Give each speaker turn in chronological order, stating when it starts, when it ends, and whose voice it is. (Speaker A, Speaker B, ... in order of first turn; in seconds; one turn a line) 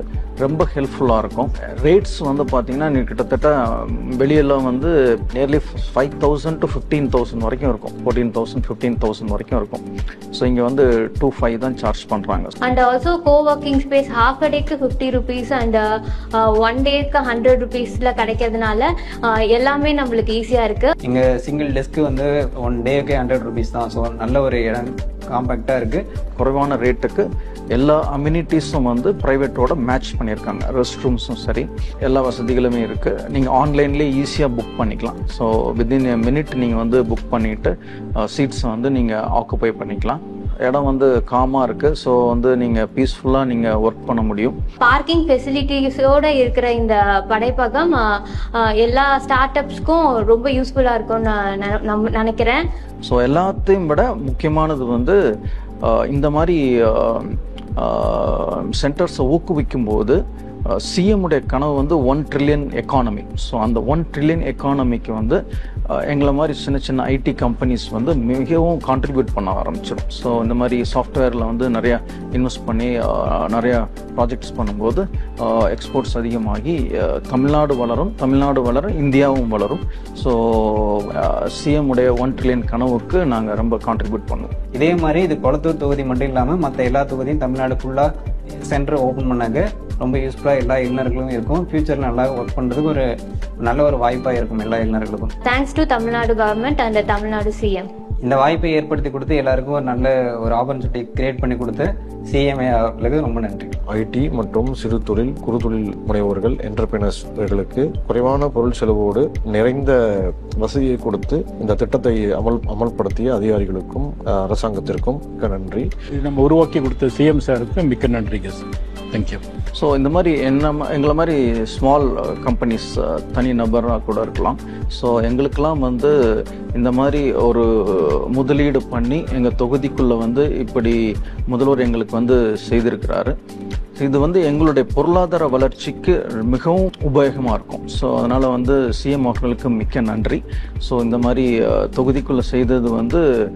Speaker A: 0.4-12.5
Speaker B: 12.6-20.9
Speaker C: 21.1-26.0
Speaker A: 26.4-44.6
Speaker B: 44.8-52.6
Speaker A: 53.0-55.2
Speaker A: 55.8-60.2
Speaker A: 60.7-65.4
Speaker A: 65.9-84.5
Speaker C: 84.7-88.1
Speaker C: 88.7-93.0
Speaker C: 93.6-95.3
Speaker B: 95.4-97.9
Speaker C: 98.2-103.8
Speaker D: 103.9-110.0
Speaker D: 110.6-115.9
Speaker E: 116.2-119.4
Speaker A: 119.7-126.1
Speaker A: 126.7-131.0
Speaker A: 131.5-133.3
Speaker A: 134.0-143.2